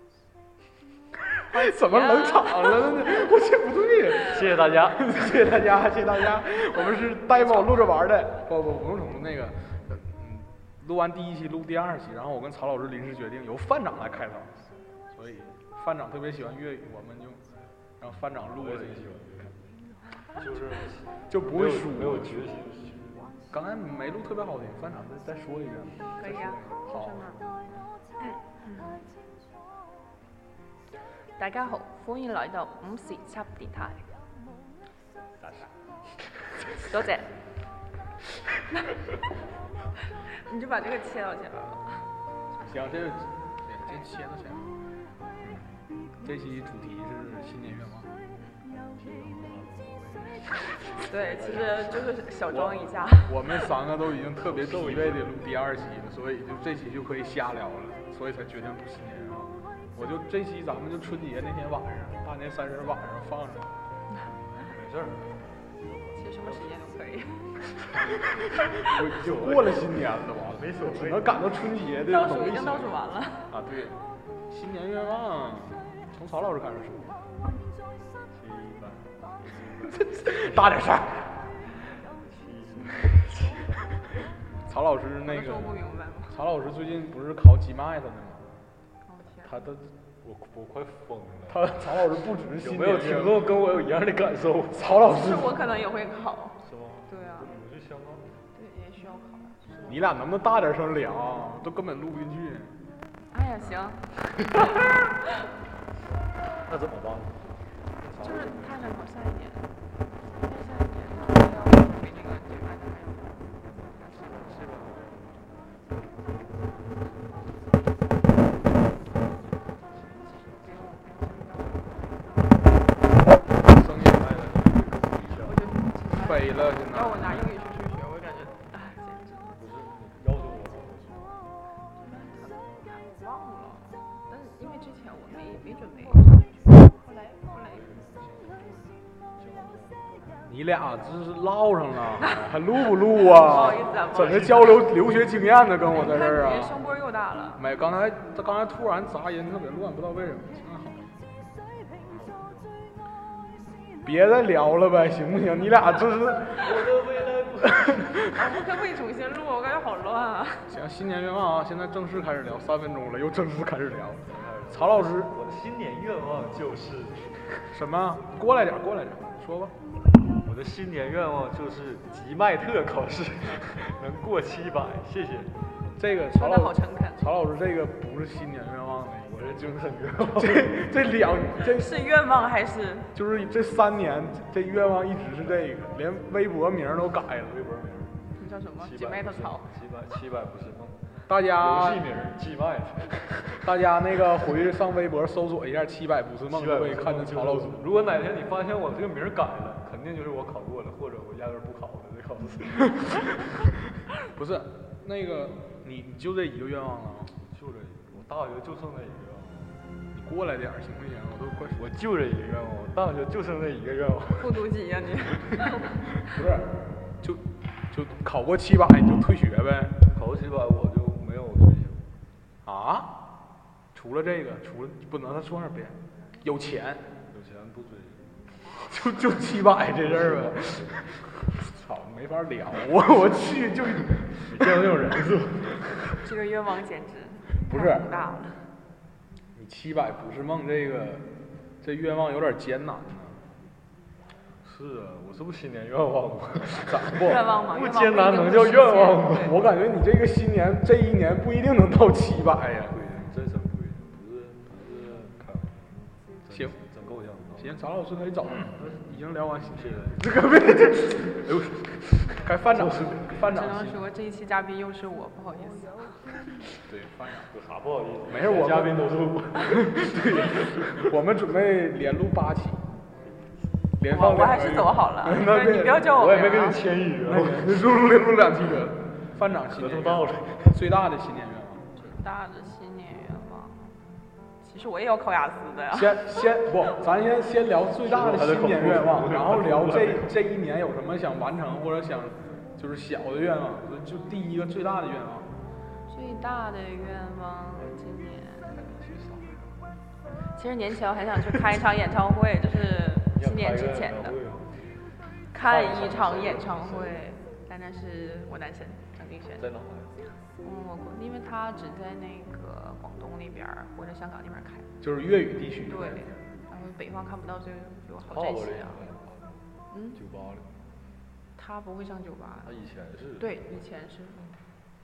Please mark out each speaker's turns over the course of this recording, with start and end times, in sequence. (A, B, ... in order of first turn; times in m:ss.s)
0:01.5-0:14.5 A
0:01.5-0:02.8 B
0:04.2-0:05.2 C
0:07.3-0:07.8 B
0:15.1-0:17.4 A
0:18.0-0:19.2 A
0:18.6-0:19.6 C
0:20.3-0:23.3 C
0:21.3-0:22.5 A
0:23.5-0:27.3 A
0:26.2-0:27.5 B
0:28.2-0:29.0 B
0:31.4-0:34.0 B
0:36.8-0:37.3 B
0:38.7-0:39.0 B
0:40.1-0:42.0 B
0:42.6-0:44.7 A
0:46.2-0:48.1 A
0:49.0-0:52.1 C
0:50.9-0:53.7 B
0:52.5-1:03.7 A
0:54.4-0:55.3 C
1:04.6-1:05.4 C
1:06.2-1:07.6 B
1:06.4-1:06.7 C
1:08.0-1:08.2 C
1:08.5-1:09.0 B
1:08.8-1:12.9 A
1:08.8-1:09.9 C
1:10.4-1:11.5 C
1:12.0-1:13.5 B
1:13.5-1:14.0 A
1:14.5-1:17.2 A
1:18.3-1:20.6 C
1:19.8-1:21.4 A
1:21.9-1:23.8 C
1:24.6-1:25.8 A
1:25.2-1:26.4 B
1:26.3-1:28.4 A
1:29.1-1:29.5 B
1:29.4-1:29.8 A
1:30.2-1:31.7 C
1:31.5-1:33.4 A
1:32.6-1:35.0 C
1:34.7-1:35.6 A
1:35.0-1:37.5 B
1:36.6-1:38.4 C
1:38.5-1:40.1 B
1:39.8-1:42.8 A
1:43.3-1:45.3 B
1:46.7-1:47.5 C
1:48.0-1:48.9 C
1:48.2-1:49.7 B
1:50.4-1:53.5 B
1:54.2-1:55.4 C
2:00.6-2:02.0 B
2:03.6-2:05.0 A
2:05.0-2:05.5 C
2:05.4-2:09.6 B
2:06.2-2:07.5 A
2:09.6-2:11.4 C
2:12.0-2:17.8 B
2:17.6-2:20.4 C
2:20.5-2:26.8 A
2:23.1-2:24.8 B
2:25.9-2:27.6 B
2:27.6-2:31.1 A
2:32.0-2:32.7 C
2:34.0-2:36.8 A
2:36.5-2:38.2 C
2:37.6-2:38.3 A
2:38.3-2:40.7 B
2:40.7-2:45.3 A
2:44.3-2:47.4 C
2:47.7-2:49.8 A
2:50.4-2:55.5 C
2:56.0-2:59.7 A
2:56.3-2:57.4 B
2:59.3-3:00.9 C
3:00.3-3:02.0 A
3:01.6-3:03.1 B
3:03.1-3:07.7 A
3:07.5-3:08.2 C
3:08.3-3:09.7 B
3:08.8-3:13.7 C
3:11.3-3:12.1 A
3:13.6-3:17.9 A
3:16.5-3:23.5 C
3:24.2-3:27.3 A
3:27.4-3:29.8 C
3:30.1-3:31.9 A
3:31.8-3:34.6 C
3:34.4-3:36.0 B
3:35.4-3:35.7 C
3:36.3-3:40.0 A
3:40.1-3:42.1 C
3:42.6-3:43.2 A
3:43.9-3:47.0 A
3:47.3-3:48.3 C
3:48.8-3:55.4 A
3:50.0-3:51.1 C
3:54.4-3:55.9 C
3:56.2-3:58.6 B
3:57.7-3:58.1 A
3:59.6-4:01.3 A
4:01.8-4:03.4 A
4:04.6-4:09.5 C
4:06.8-4:07.4 A
4:07.1-4:09.6 B
4:09.4-4:13.0 A
4:12.9-4:17.8 C
4:16.5-4:16.8 A
4:17.6-4:21.5 A
4:19.7-4:20.3 C
4:21.4-4:23.4 C
4:22.4-4:24.0 A
4:23.4-4:26.1 B
4:26.8-4:27.5 A
4:27.5-4:30.9 C
4:28.3-4:32.9 A
4:34.0-4:36.1 A
4:34.1-4:36.9 B
4:36.0-4:37.7 C
4:37.2-4:41.8 A
4:39.6-4:40.7 C
4:42.0-4:43.8 B
4:44.6-4:46.6 B
4:45.9-4:55.5 A
4:48.0-4:50.3 C
4:56.1-4:58.8 B
4:58.7-4:59.8 C
5:00.6-5:04.4 B
5:03.4-5:04.8 C
5:05.5-5:09.7 B
5:05.6-5:07.2 C
5:09.6-5:10.2 C
5:10.6-5:14.9 B
5:15.0-5:16.4 A
5:15.9-5:19.0 B
5:18.3-5:20.7 C
5:19.9-5:20.2 B
5:21.6-5:22.8 B
5:22.6-5:23.5 C
5:23.4-5:24.5 B